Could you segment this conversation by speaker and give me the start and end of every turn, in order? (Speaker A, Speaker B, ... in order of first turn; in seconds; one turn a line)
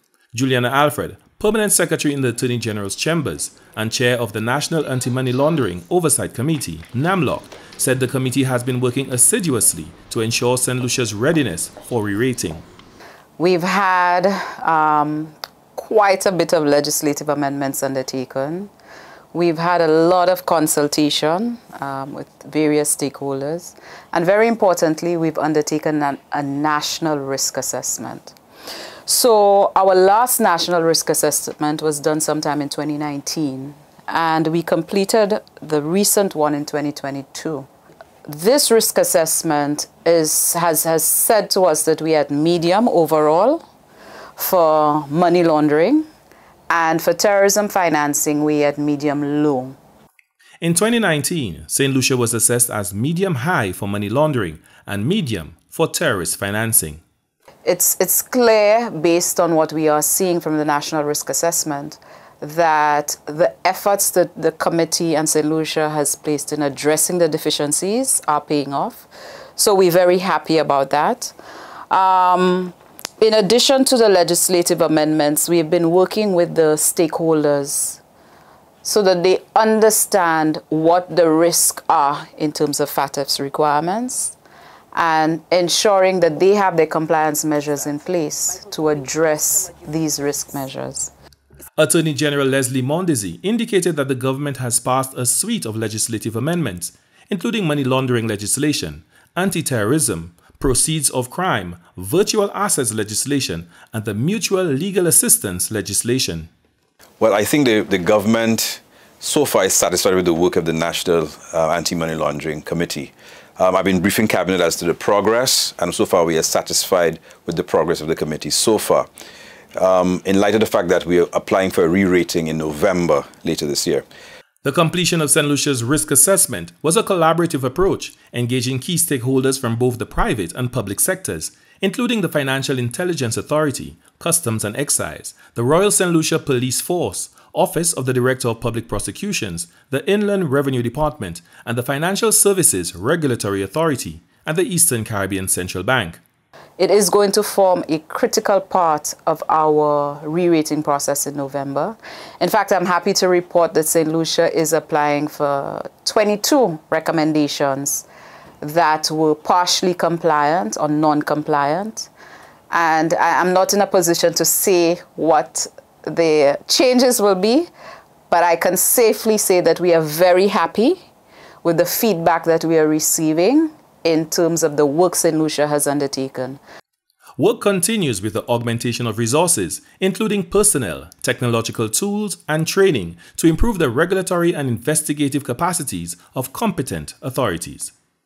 Speaker A: 0.3-12.6
Speaker B: 13.4-18.7
Speaker B: 19.3-28.4
Speaker B: 29.1-37.7
Speaker B: 38.2-43.6
Speaker B: 44.4-46.0
Speaker B: 46.7-49.8
Speaker A: 50.6-57.0
Speaker B: 57.6-71.3
Speaker B: 71.9-78.0
Speaker B: 78.8-84.4
Speaker B: 84.9-91.1
Speaker A: 91.8-106.5
Speaker C: 107.2-119.1
Speaker C: 119.7-124.0
Speaker A: 124.6-146.2
Speaker B: 146.8-158.1
Speaker B: 158.6-162.1
Speaker B: 162.7-167.7
Speaker B: 168.3-171.1
Speaker B: 171.6-176.6
Speaker A: 177.4-187.9